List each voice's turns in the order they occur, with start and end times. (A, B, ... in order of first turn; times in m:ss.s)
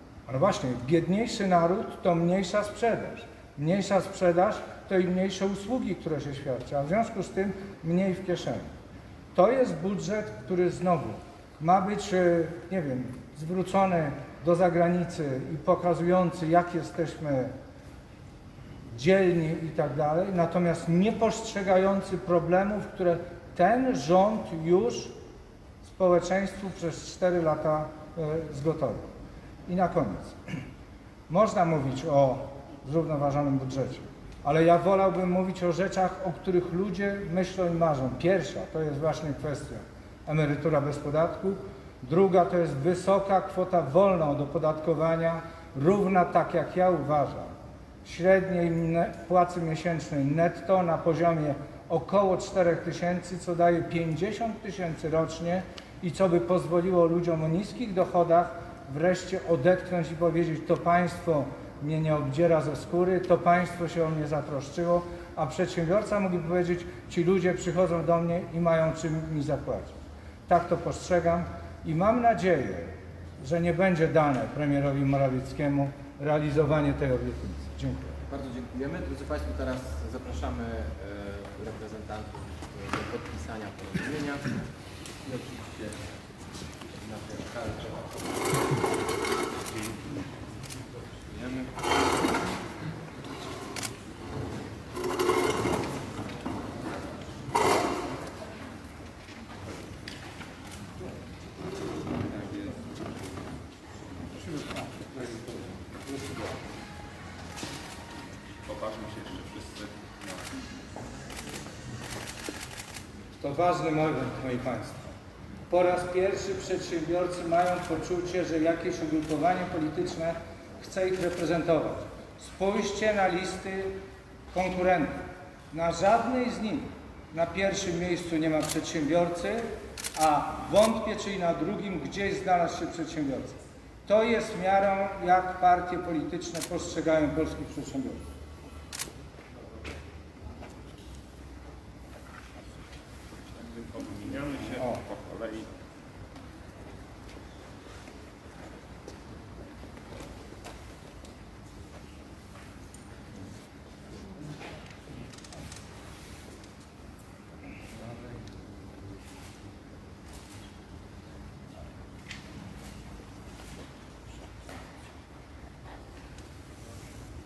0:00.3-0:08.7 A
0:09.3-0:17.5 A
0:18.9-0:25.1 A
0:25.8-0:29.1 A
0:29.7-0:30.4 A
0:31.3-0:47.5 A
0:48.0-1:18.2 A
1:18.3-1:24.6 B
1:25.2-1:25.9 B
1:27.0-1:28.8 B
1:31.3-1:31.7 B
1:42.4-1:42.7 C
1:44.6-1:46.5 A
1:48.7-1:50.1 C
1:53.4-1:55.1 A
1:55.7-2:04.0 A
2:04.5-2:18.3 A
2:23.8-2:25.7 C
2:24.8-2:25.0 A